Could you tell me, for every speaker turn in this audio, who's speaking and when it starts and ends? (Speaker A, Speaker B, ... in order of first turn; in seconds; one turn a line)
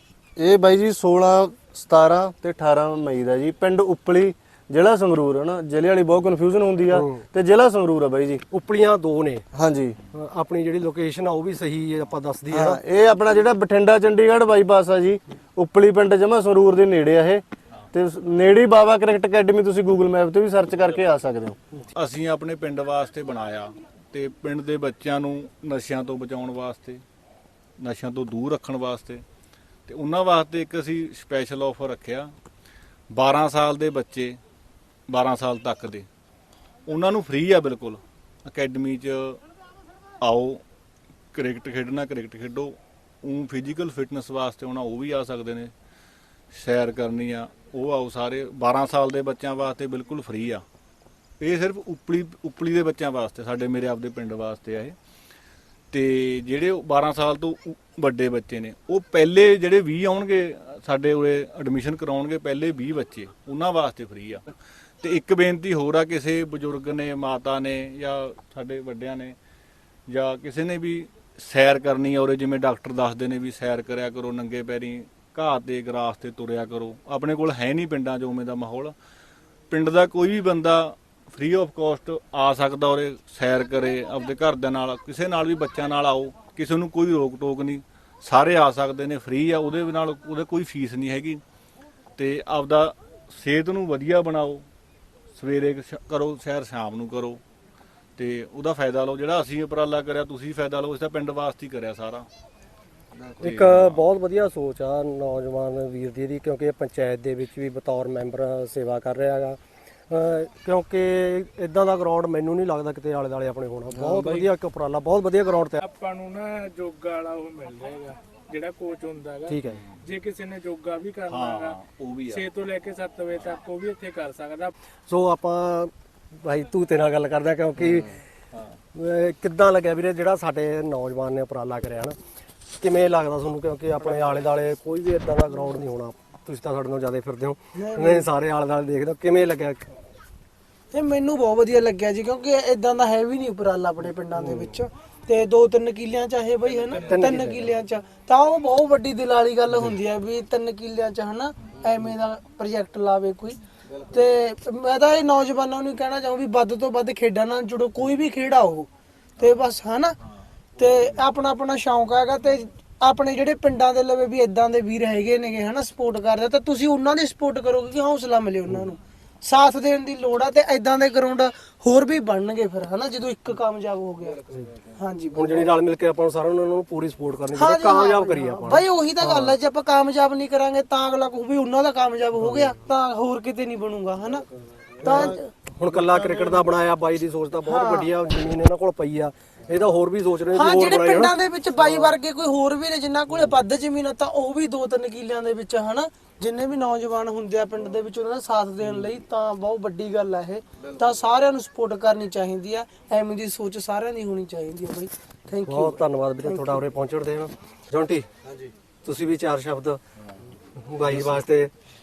Speaker A: 0.4-8.4
Speaker B: 6.9-7.2
Speaker B: 8.5-9.4
Speaker A: 9.5-10.0
Speaker B: 10.1-12.8
Speaker A: 12.5-17.4
Speaker A: 17.9-21.6
Speaker C: 21.9-27.0
Speaker C: 27.8-29.2
Speaker C: 29.9-32.3
Speaker C: 33.1-34.4
Speaker C: 35.1-36.1
Speaker C: 36.9-39.4
Speaker C: 40.2-40.6
Speaker C: 41.3-45.7
Speaker C: 46.5-50.6
Speaker C: 51.4-55.0
Speaker C: 55.9-64.5
Speaker C: 65.0-69.4
Speaker C: 70.1-79.0
Speaker C: 79.7-91.4
Speaker C: 92.2-94.7
Speaker C: 95.4-97.4
Speaker C: 98.2-102.3
Speaker A: 103.2-103.5
Speaker C: 103.4-104.0
Speaker B: 103.4-115.8
Speaker A: 113.9-114.5
Speaker D: 115.8-119.5
Speaker B: 119.5-119.8
Speaker D: 120.0-121.7
Speaker C: 121.3-122.5
Speaker D: 122.3-124.7
Speaker B: 125.1-128.2
Speaker A: 127.9-128.1
Speaker B: 128.9-132.2
Speaker B: 132.8-139.9
Speaker E: 137.8-138.3
Speaker E: 140.9-158.9
Speaker B: 144.4-144.7
Speaker C: 146.7-147.3
Speaker B: 147.1-147.7
Speaker C: 159.4-159.7
Speaker E: 159.4-160.2
Speaker E: 160.8-174.4
Speaker E: 174.9-175.7
Speaker B: 175.3-179.5
Speaker E: 177.6-184.4
Speaker B: 182.4-182.7
Speaker E: 185.0-185.4
Speaker B: 185.0-192.1
Speaker E: 187.7-188.1
Speaker E: 190.5-206.8
Speaker B: 205.7-208.3
Speaker B: 209.0-210.0
Speaker B: 210.8-211.7